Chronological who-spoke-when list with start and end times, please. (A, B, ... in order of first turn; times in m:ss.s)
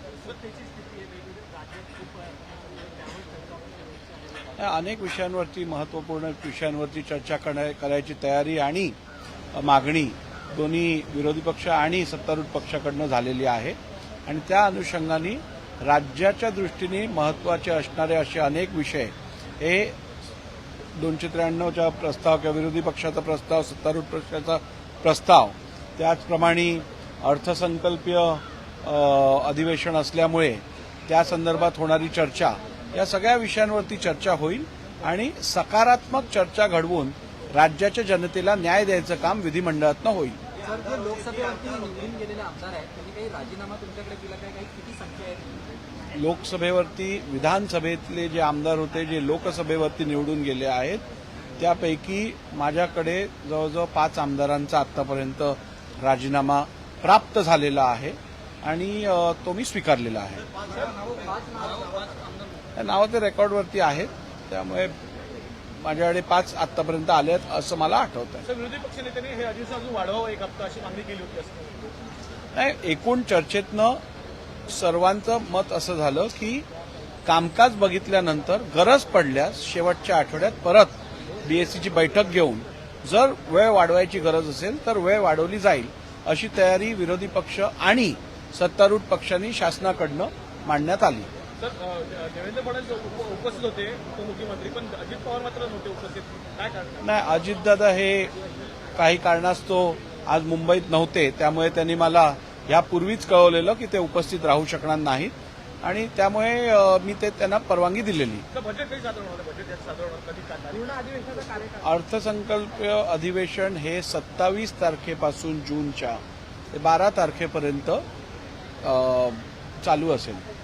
0:00.4-0:03.6 A
0:04.6-0:09.0 B
0:09.5-0:20.0 B
0:20.9-0:40.4 B
0:40.6-0:45.7 A
0:46.1-0:51.0 B
0:51.6-1:00.4 B
1:00.7-1:02.1 C
1:01.1-1:02.0 A
1:02.8-1:05.0 B
1:05.8-1:08.4 B
1:08.4-1:11.8 C
1:12.5-1:14.0 B
1:14.7-1:16.6 B
1:17.2-1:31.3 B
1:31.6-1:37.1 C
1:37.0-1:38.3 B
1:38.9-1:48.4 B
1:48.5-1:51.2 C
1:51.1-1:51.8 A
1:51.8-1:58.0 B
1:58.8-2:00.5 B